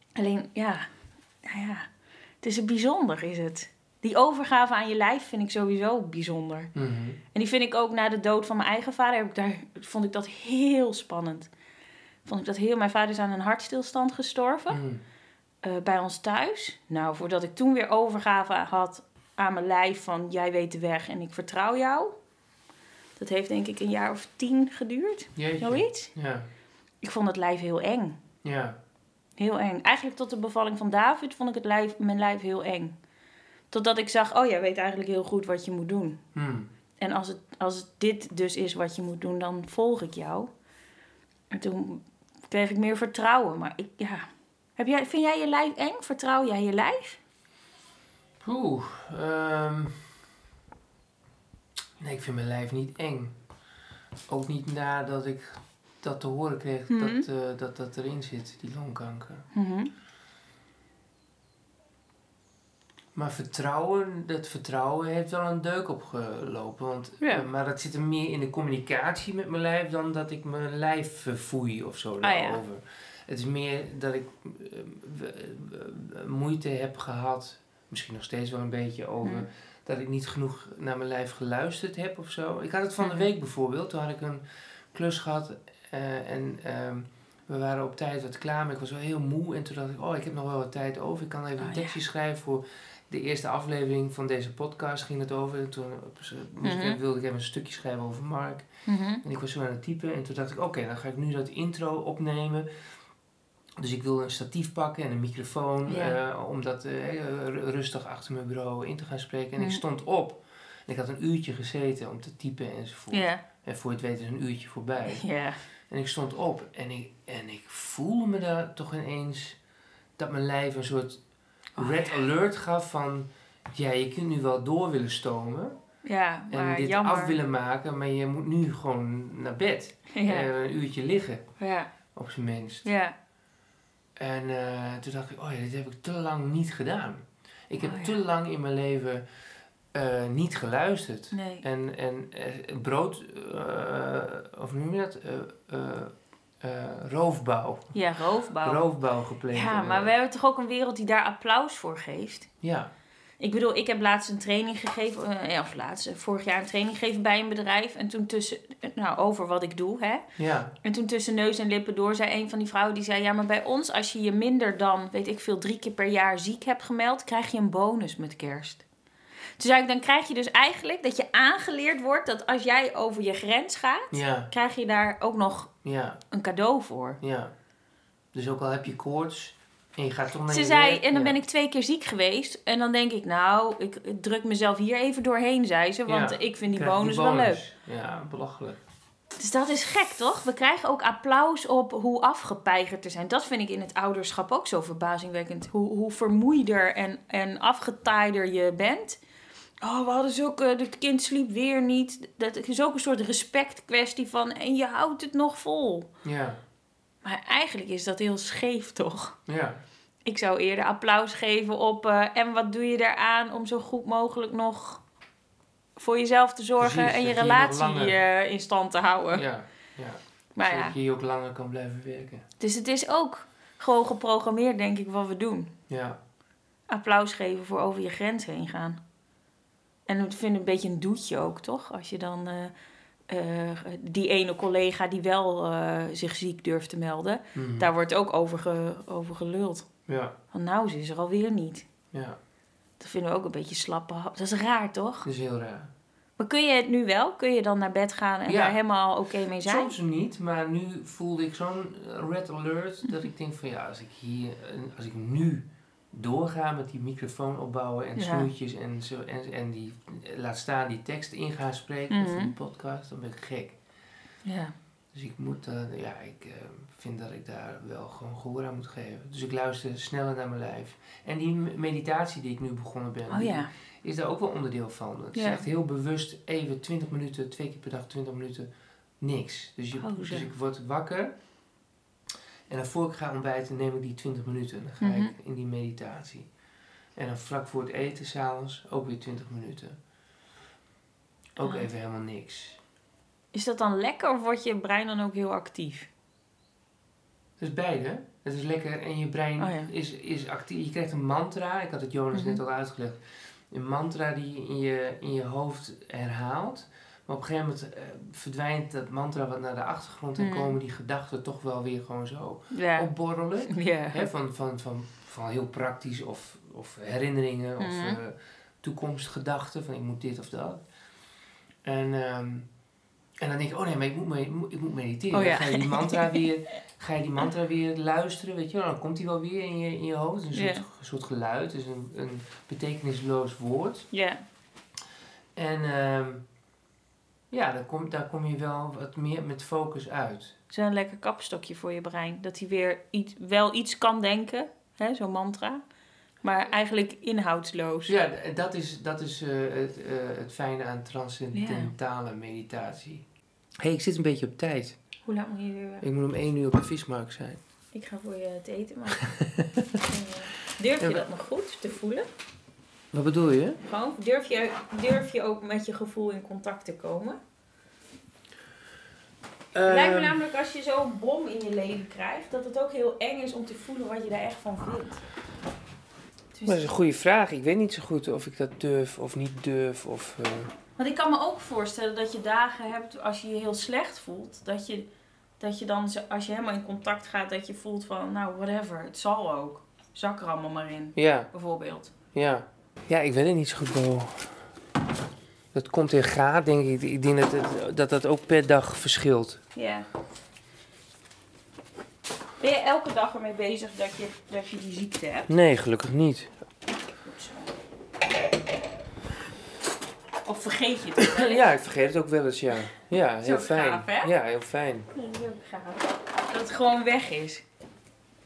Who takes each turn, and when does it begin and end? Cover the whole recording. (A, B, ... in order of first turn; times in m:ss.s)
0:00.2-0:00.9 A
0:01.4-0:01.9 A
0:02.4-0:06.7 A
0:06.8-0:07.2 B
0:07.3-0:11.5 A
0:12.2-0:14.8 A
0:14.7-0:15.0 B
0:15.6-0:22.2 A
0:23.2-0:26.1 A
0:25.4-0:26.5 B
0:27.0-0:28.2 A
0:28.4-0:28.8 B
0:29.4-0:33.0 A
0:33.7-0:36.2 A
0:36.4-0:36.7 B
0:37.0-0:40.5 A
0:41.5-0:44.3 A
0:44.8-0:47.2 A
0:48.4-0:50.1 B
0:52.0-0:53.4 B
0:54.3-0:59.5 B
0:56.9-0:57.3 A
0:59.5-0:59.9 A
1:03.2-1:38.7 B
1:07.2-1:07.5 A
1:12.2-1:12.6 A
1:23.0-1:23.3 A
1:31.6-1:32.0 A
1:36.6-1:37.0 A
1:38.9-1:39.2 A
1:39.2-1:42.7 B
1:43.8-1:55.2 B
1:45.9-1:46.2 A
1:53.1-1:53.4 A
1:55.1-1:55.6 A
1:55.9-1:59.6 B
2:00.2-2:01.2 B
2:01.8-2:05.8 B
2:01.8-2:02.1 A
2:06.0-2:07.4 A
2:06.5-2:11.5 B
2:10.1-2:10.5 A
2:11.6-2:11.9 A
2:12.1-2:12.9 B
2:12.8-2:13.2 A
2:14.2-2:19.3 B
2:17.8-2:18.2 A
2:19.9-2:28.0 B
2:21.3-2:21.6 A
2:27.9-2:28.9 A
2:28.6-2:30.1 B
2:29.5-2:32.5 A
2:32.6-2:32.9 B
2:33.4-2:40.2 A
2:40.4-2:40.7 B
2:40.8-2:48.8 A
2:49.6-2:55.7 A
2:54.1-2:54.5 B
2:55.8-2:56.2 B
2:56.3-2:57.2 A
2:57.2-2:57.5 B
2:58.3-3:01.4 B
3:00.5-3:07.6 A
3:06.1-3:08.8 B
3:09.4-3:19.2 A
3:19.8-3:26.1 A
3:26.2-3:26.6 B
3:27.2-3:29.4 A
3:29.5-3:29.8 B
3:30.2-3:35.0 A
3:36.0-3:39.5 A
3:36.8-3:38.2 B
3:39.3-3:42.4 B
3:40.6-3:41.0 A
3:42.6-3:45.7 A
3:45.9-3:46.2 B
3:46.9-3:49.0 A
3:50.1-3:52.7 A
3:53.3-3:59.9 A
3:57.6-3:57.9 B
4:00.1-4:00.4 B
4:00.5-4:01.9 A
4:02.1-4:02.4 B
4:03.0-4:05.3 A
4:05.2-4:05.9 B
4:06.4-4:09.9 A
4:08.5-4:08.8 B
4:09.6-4:23.8 B
4:18.2-4:18.5 A
4:22.1-4:22.5 A
4:24.4-4:24.8 A
4:25.1-4:38.7 B
4:33.3-4:33.7 A
4:35.4-4:35.6 A
4:39.2-4:41.4 B
4:40.0-4:40.5 A
4:42.7-4:46.5 B
4:45.0-4:45.3 A
4:47.2-4:50.0 B
4:51.6-4:52.8 B
4:51.6-4:51.9 A
4:53.5-4:56.1 A
4:57.6-5:20.8 B
4:59.6-4:59.9 A
5:02.3-5:02.6 A
5:10.4-5:10.8 A
5:12.7-5:13.1 A
5:13.7-5:14.3 A
5:17.8-5:18.2 A
5:21.8-5:22.7 B
5:23.4-5:34.1 B
5:25.3-5:26.4 A
5:30.5-5:30.8 A
5:34.1-5:34.4 A
5:35.6-5:36.4 B
5:37.5-5:40.6 B
5:40.7-5:45.8 A
5:46.4-5:48.1 A
5:48.1-5:53.2 B
5:51.5-5:51.9 A
5:53.8-5:55.0 B
5:55.3-5:56.0 A
5:56.0-5:57.6 B
5:57.9-6:02.3 A
5:59.2-6:00.0 B
6:03.1-6:03.8 B
6:03.8-6:07.4 A
6:09.7-6:10.4 B
6:09.8-6:15.2 A
6:16.5-6:16.9 A
6:16.6-6:20.7 B
6:21.0-6:25.1 A
6:25.6-6:32.1 A
6:31.2-6:31.5 B
6:32.3-6:34.5 B
6:35.7-6:39.6 B
6:39.8-6:40.1 A
6:42.6-6:45.5 A
6:45.5-6:46.6 B
6:47.2-6:47.7 A
6:50.4-6:51.6 A
6:51.2-6:55.1 B
6:53.4-6:54.3 A
6:55.1-6:57.6 A